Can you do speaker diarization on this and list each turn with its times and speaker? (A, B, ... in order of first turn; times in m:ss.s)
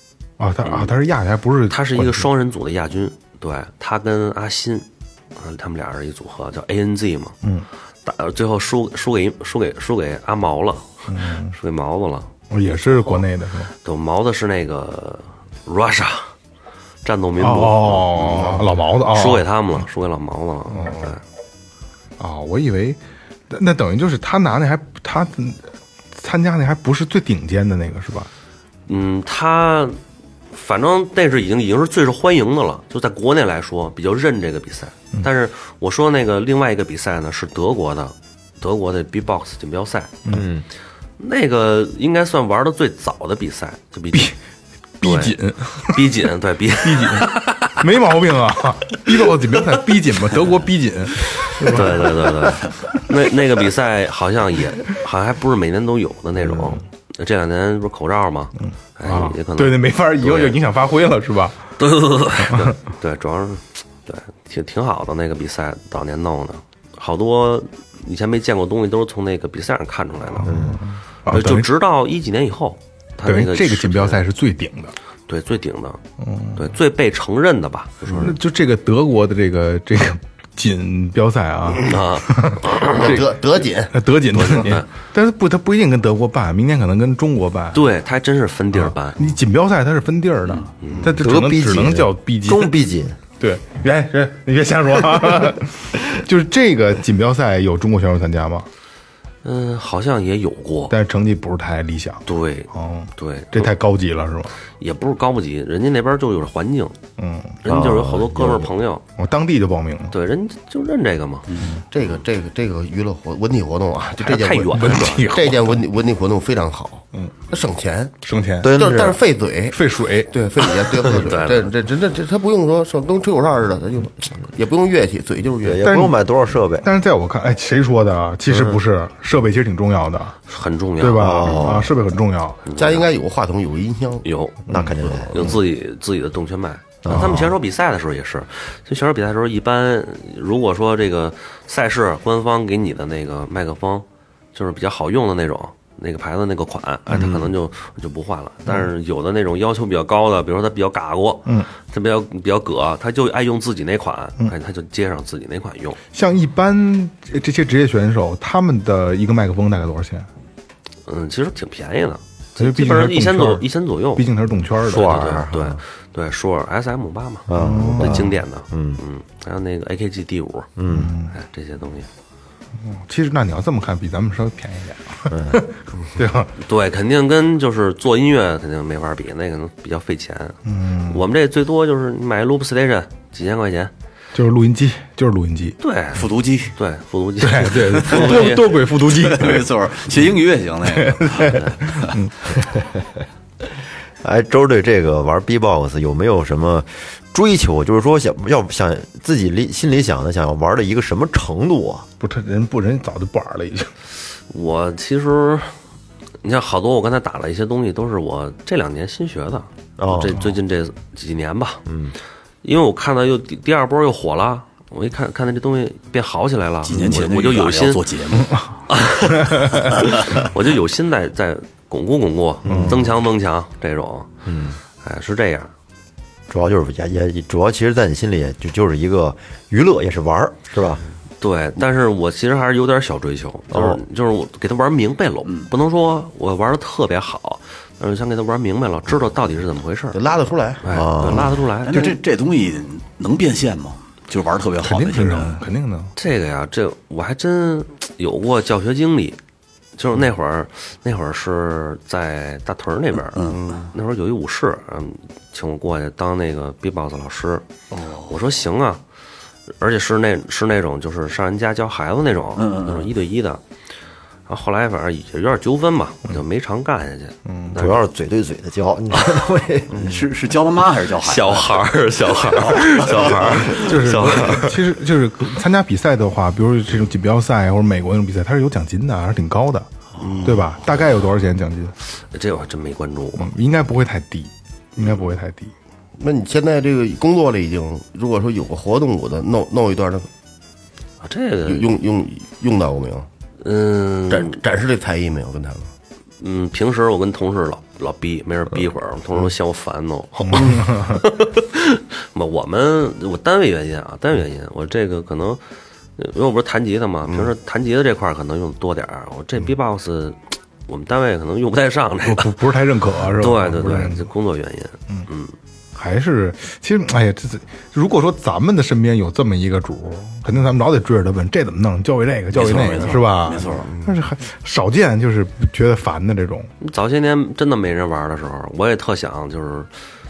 0:00.4-0:02.3 A
0:00.6-0:01.0 B
0:01.7-0:07.4 B
0:08.0-0:12.3 B
0:11.1-0:11.6 A
0:12.5-0:13.7 A
0:12.9-0:13.2 B
0:13.8-0:16.3 B
0:17.0-0:21.2 B
0:17.4-0:19.4 A
0:20.7-0:21.0 A
0:22.2-0:23.0 A
0:23.5-0:25.6 A
0:26.1-0:28.3 A
0:28.9-0:30.0 B
0:30.5-0:40.2 B
0:40.3-0:40.6 C
0:41.2-0:44.3 B
0:45.0-0:46.1 A
0:45.0-0:45.4 B
0:45.9-0:47.8 B
0:46.8-0:53.0 A
0:51.4-1:00.6 B
0:58.6-1:01.6 A
1:01.8-1:10.7 B
1:02.4-1:02.8 A
1:10.4-1:11.7 A
1:10.4-1:10.8 C
1:11.3-1:14.2 B
1:13.2-1:14.9 A
1:15.3-1:16.0 B
1:16.2-1:16.7 A
1:16.6-1:18.4 B
1:18.2-1:27.9 A
1:21.8-1:23.1 B
1:22.8-1:24.7 D
1:24.3-1:24.9 B
1:27.7-1:29.3 B
1:28.7-1:32.8 A
1:30.8-1:31.1 B
1:31.0-1:33.2 C
1:33.4-1:38.7 A
1:39.4-1:41.0 B
1:40.9-1:44.5 A
1:42.3-1:43.7 B
1:44.8-1:47.0 B
1:47.2-1:47.6 A
1:47.6-1:49.0 B
1:47.6-1:48.7 C
1:49.2-1:50.1 A
1:50.1-1:51.6 B
1:51.5-1:51.8 E
1:51.6-1:51.8 A
1:51.9-2:06.1 D
1:54.2-1:55.5 B
1:54.7-1:55.8 A
1:58.2-1:58.8 A
1:58.6-1:59.2 C
1:59.7-2:00.3 A
2:01.0-2:01.7 B
2:05.6-2:06.9 C
2:05.8-2:06.2 A
2:06.8-2:10.4 A
2:08.5-2:08.8 C
2:10.5-2:11.8 B
2:11.0-2:12.6 A
2:11.1-2:12.0 C
2:12.6-2:13.1 B
2:12.8-2:15.6 D
2:14.2-2:14.6 B
2:14.7-2:15.6 C
2:15.3-2:36.0 B
2:17.0-2:17.5 C
2:17.1-2:17.4 A
2:27.1-2:27.5 C
2:36.1-2:40.3 A
2:41.1-2:44.3 B
2:42.6-2:45.2 A
2:44.8-2:45.8 C
2:44.9-2:50.7 B
2:47.5-2:49.0 C
2:47.5-2:48.4 A
2:50.8-2:51.2 C
2:50.9-2:51.3 A
2:51.3-2:52.1 B
2:52.8-2:56.5 A
2:55.3-2:55.6 C
2:56.6-3:03.9 B
3:00.7-3:01.2 A
3:04.3-3:05.8 A
3:05.8-3:08.8 B
3:06.1-3:06.7 E
3:07.4-3:09.7 A
3:08.0-3:12.2 E
3:11.0-3:13.1 A
3:14.2-3:22.1 C
3:22.2-3:23.9 A
3:24.5-3:25.7 B
3:26.4-3:31.8 B
3:30.0-3:30.4 C
3:31.9-3:32.1 C
3:32.6-3:38.1 B
3:36.8-3:38.6 E
3:38.9-3:44.3 B
3:42.6-3:43.0 C
3:42.7-3:43.0 A
3:44.4-3:44.8 C
3:45.0-3:45.7 B
3:46.5-3:51.0 C
3:51.4-4:00.2 B
3:53.7-3:54.0 C
3:55.4-3:55.7 E
4:00.1-4:00.8 D
4:00.8-4:02.1 B
4:00.9-4:01.5 C
4:01.8-4:05.6 E
4:04.8-4:06.1 A
4:06.2-4:09.4 B
4:10.0-4:17.6 B
4:13.3-4:13.9 E
4:17.9-4:18.4 E
4:18.3-4:19.0 B
4:19.8-4:23.6 B
4:22.6-4:23.1 E
4:24.5-4:28.1 B
4:27.4-4:27.8 A
4:27.8-4:30.0 C
4:29.9-4:30.2 D
4:30.0-4:31.9 E
4:31.2-4:34.8 B
4:32.4-4:33.8 E
4:33.8-4:39.9 A
4:40.2-4:40.7 E
4:40.2-4:40.6 D
4:40.4-4:42.0 A
4:42.3-4:43.5 B
4:43.4-4:45.7 A
4:46.2-4:50.3 D
4:51.2-4:51.9 B
4:51.7-4:53.3 D
4:53.6-4:54.6 B
4:54.3-4:55.9 D
4:56.4-5:05.6 B
5:00.4-5:01.2 A
5:06.2-5:12.7 B
5:12.2-5:14.3 A
5:13.4-5:15.5 B
5:16.0-5:26.7 A
5:22.5-5:23.9 E
5:23.7-5:24.2 D
5:26.8-5:29.9 B